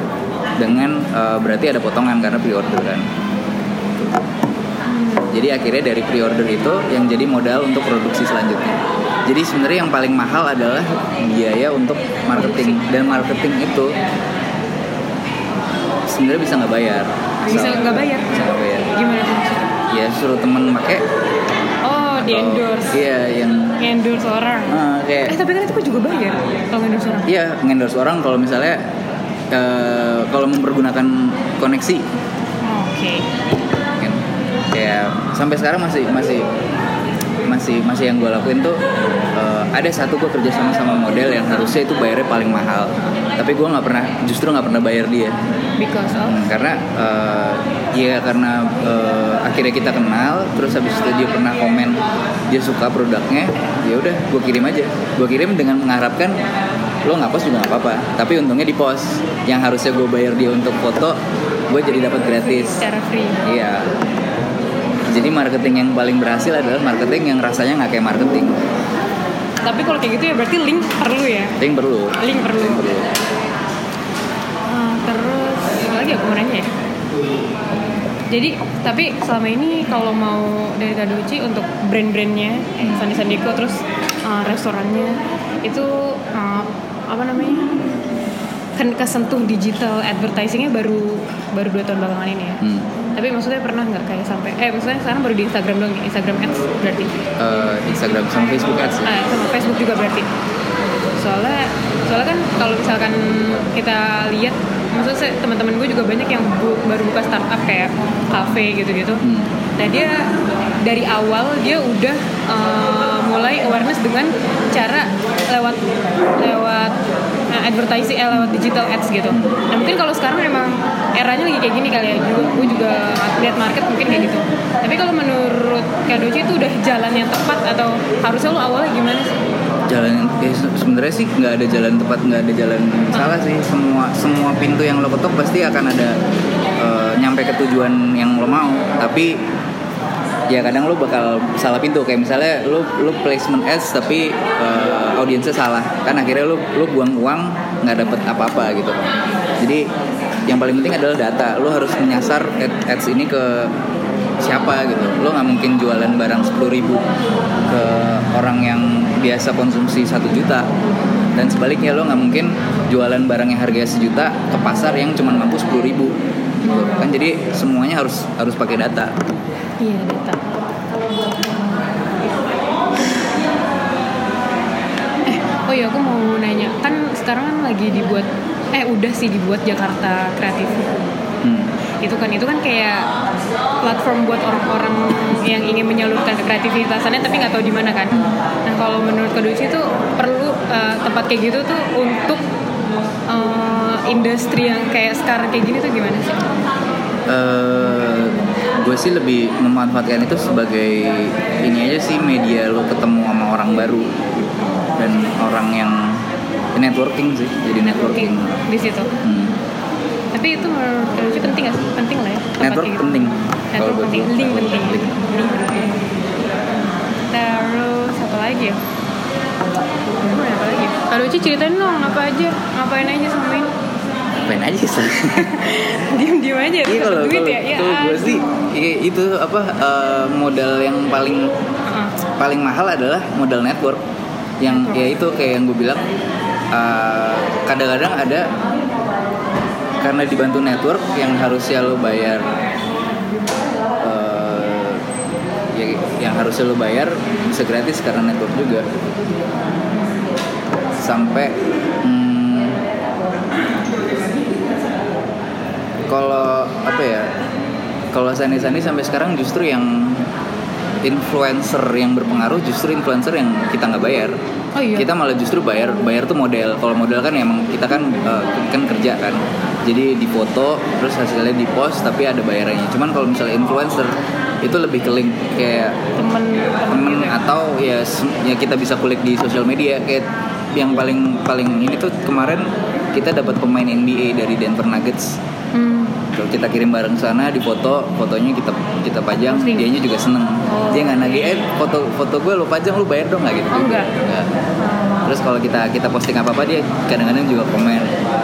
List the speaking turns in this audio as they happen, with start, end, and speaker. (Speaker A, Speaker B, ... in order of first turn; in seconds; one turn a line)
Speaker A: 0.6-3.1
Speaker B: 4.9-5.3
Speaker A: 5.3-13.9
Speaker B: 12.3-12.9
Speaker A: 16.1-18.9
Speaker B: 17.4-18.3
Speaker B: 18.9-19.7
Speaker A: 19.9-21.0
Speaker B: 21.8-23.0
Speaker A: 22.2-23.8
Speaker B: 23.8-27.3
Speaker A: 24.7-25.4
Speaker A: 27.2-28.9
Speaker A: 29.5-32.0
Speaker B: 32.6-33.3
Speaker A: 34.0-36.5
Speaker A: 37.4-45.4
Speaker B: 45.8-46.4
Speaker A: 46.1-56.4
Speaker A: 57.0-62.8
Speaker B: 61.9-63.4
Speaker A: 63.4-63.9
Speaker A: 65.0-68.6
Speaker B: 69.6-71.6
Speaker A: 71.6-73.1
Speaker B: 72.2-72.8
Speaker B: 74.6-76.7
Speaker B: 78.3-87.7
Speaker A: 82.8-83.1
Speaker B: 88.8-92.6
Speaker A: 92.6-92.9
Speaker B: 93.1-97.1
Speaker A: 97.4-99.1
Speaker B: 99.0-100.3
Speaker B: 101.1-109.2
Speaker A: 109.2-109.5
Speaker B: 109.8-110.3
Speaker B: 110.8-115.8
Speaker B: 116.4-117.0
Speaker B: 117.5-129.4
Speaker A: 118.3-118.6
Speaker A: 119.3-119.6
Speaker A: 122.3-122.9
Speaker A: 129.9-136.2
Speaker A: 136.8-139.4
Speaker A: 140.5-149.0
Speaker A: 149.6-149.9
Speaker A: 150.5-153.7
Speaker A: 154.4-157.0
Speaker A: 157.7-160.7
Speaker A: 161.3-169.2
Speaker B: 166.6-167.1
Speaker B: 169.8-170.4
Speaker B: 175.2-181.0
Speaker A: 181.4-181.7
Speaker B: 182.0-183.1
Speaker B: 183.8-192.4
Speaker B: 193.3-196.4
Speaker A: 197.3-204.3
Speaker A: 204.9-206.2
Speaker A: 206.7-208.6
Speaker B: 207.8-209.1
Speaker A: 209.2-209.6
Speaker B: 210.3-213.2
Speaker A: 212.6-215.2
Speaker B: 213.7-216.0
Speaker B: 217.3-218.8
Speaker B: 220.2-223.7
Speaker A: 224.4-225.6
Speaker B: 225.3-228.5
Speaker A: 226.8-231.5
Speaker B: 231.8-232.1
Speaker A: 232.3-234.0
Speaker A: 234.6-236.0
Speaker B: 234.7-235.0
Speaker A: 236.7-238.5
Speaker A: 240.0-242.5
Speaker A: 244.0-245.0
Speaker A: 245.7-248.8
Speaker A: 251.0-252.8
Speaker A: 256.1-257.3
Speaker A: 258.1-260.3
Speaker A: 261.0-264.4
Speaker B: 264.8-265.1
Speaker A: 264.9-276.0
Speaker B: 276.1-277.4
Speaker A: 276.9-285.4
Speaker B: 285.7-286.2
Speaker A: 286.3-294.6
Speaker B: 289.5-289.9
Speaker B: 290.6-291.1
Speaker B: 293.7-294.1
Speaker B: 294.8-295.2
Speaker A: 295.2-298.1